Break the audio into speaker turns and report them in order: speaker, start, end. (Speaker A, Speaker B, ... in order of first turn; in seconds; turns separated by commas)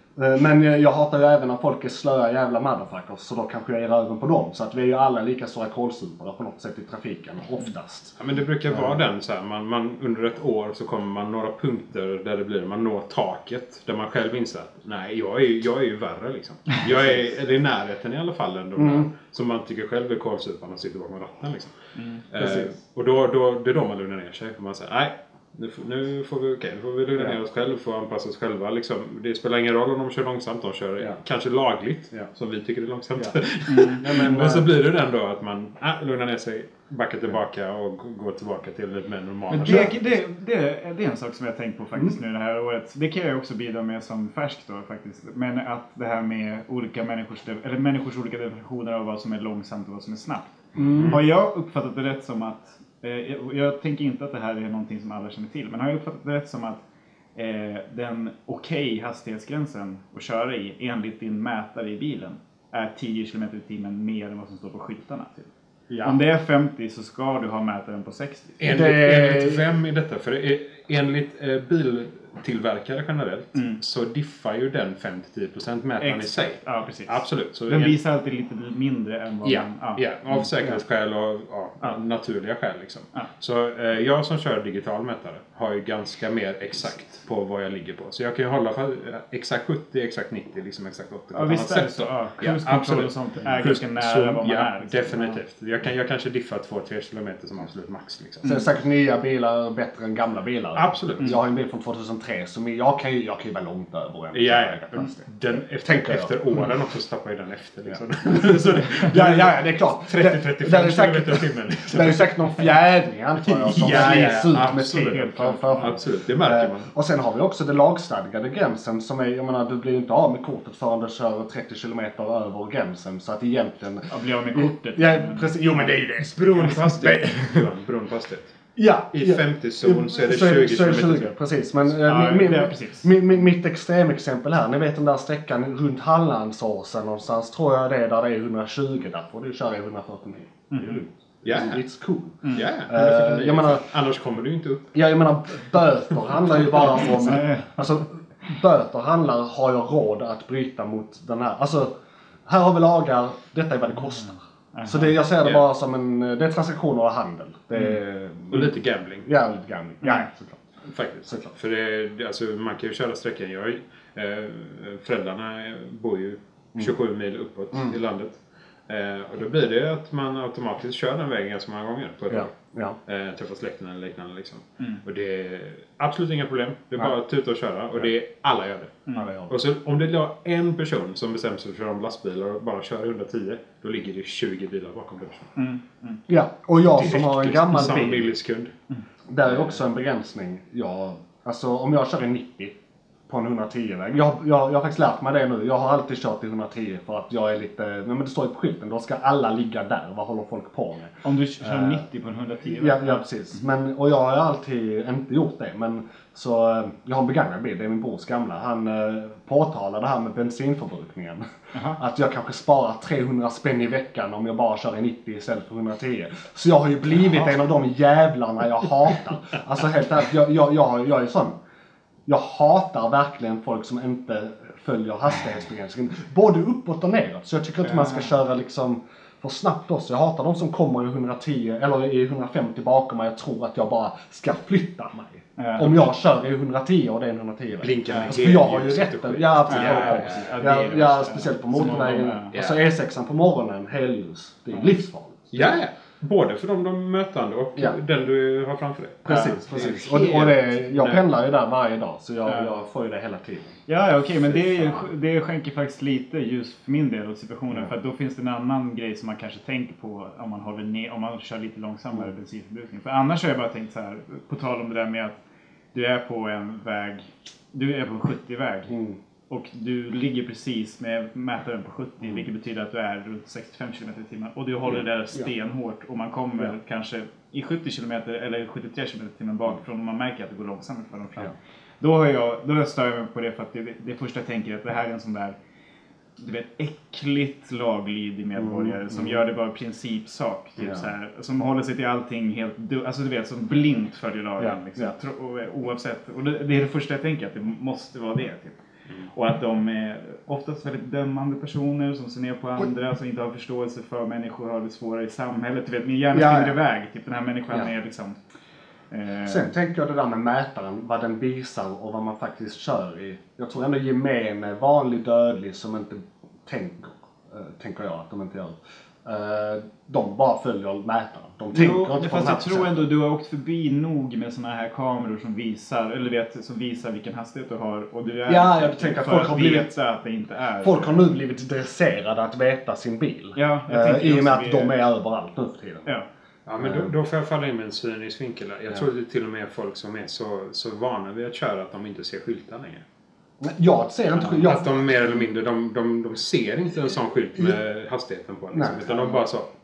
Speaker A: 0.2-8.2, Speaker B: 8.2-21.8, Speaker A: 8.7-9.0, Speaker A: 18.8-19.1, Speaker C: 22.0-22.2, Speaker B: 22.3-40.0, Speaker A: 22.4-22.7, Speaker C: 33.7-34.1, Speaker A: 34.0-34.7, Speaker C: 39.5-50.5, Speaker A: 39.6-39.9, Speaker A: 50.8-51.2, Speaker B: 50.9-51.2, Speaker C: 51.1-56.8, Speaker C: 57.4-65.5, Speaker A: 65.9-66.2, Speaker C: 66.0-68.6, Speaker B: 68.6-78.0, Speaker A: 68.7-69.6, Speaker C: 76.0-80.5, Speaker B: 79.5-98.5, Speaker C: 91.3-95.4, Speaker A: 98.4-105.2, Speaker B: 100.8-101.4, Speaker B: 104.3-112.7, Speaker A: 105.8-106.3, Speaker A: 107.9-127.6, Speaker B: 113.4-115.3, Speaker C: 113.8-116.0, Speaker B: 115.8-116.9, Speaker C: 124.1-126.0, Speaker B: 126.0-128.6, Speaker A: 128.8-143.8, Speaker B: 129.1-131.3, Speaker C: 132.0-133.1, Speaker C: 140.7-141.0, Speaker B: 141.4-141.8, Speaker C: 142.4-142.7, Speaker B: 142.5-144.9, Speaker A: 144.9-151.9, Speaker C: 147.2-147.7, Speaker A: 152.5-158.8, Speaker C: 154.7-155.1, Speaker B: 158.5-159.3, Speaker A: 159.3-160.6, Speaker C: 160.0-160.3, Speaker B: 160.9-185.5, Speaker A: 172.3-173.0, Speaker A: 179.2-179.5, Speaker C: 185.6-186.2, Speaker A: 186.3-188.3, Speaker B: 186.9-188.7, Speaker A: 189.3-192.8, Speaker A: 193.3-202.0, Speaker C: 201.2-203.2, Speaker A: 202.7-221.6, Speaker C: 211.7-212.0, Speaker A: 222.3-245.8, Speaker C: 227.9-228.2, Speaker C: 235.6-236.0, Speaker B: 237.8-240.6, Speaker C: 238.1-238.4, Speaker C: 239.7-242.5, Speaker B: 241.8-242.8, Speaker B: 245.5-251.2, Speaker A: 249.3-253.8, Speaker C: 249.3-250.1, Speaker C: 252.5-252.7, Speaker C: 253.9-265.4, Speaker C: 265.9-268.9, Speaker A: 268.9-269.2, Speaker C: 269.5-285.6, Speaker C: 286.4-298.8, Speaker A: 288.6-289.4, Speaker A: 290.8-291.1, Speaker A: 294.6-295.1, Speaker C: 299.3-308.4, Speaker A: 306.3-306.8, Speaker C: 309.1-309.7, Speaker A: 309.4-323.1, Speaker C: 321.7-331.3, Speaker A: 328.5-329.9, Speaker A: 330.8-336.1, Speaker C: 333.6-335.0, Speaker B: 336.7-343.0, Speaker A: 336.8-337.1, Speaker A: 343.6-345.2, Speaker B: 344.6-349.7, Speaker A: 348.7-349.4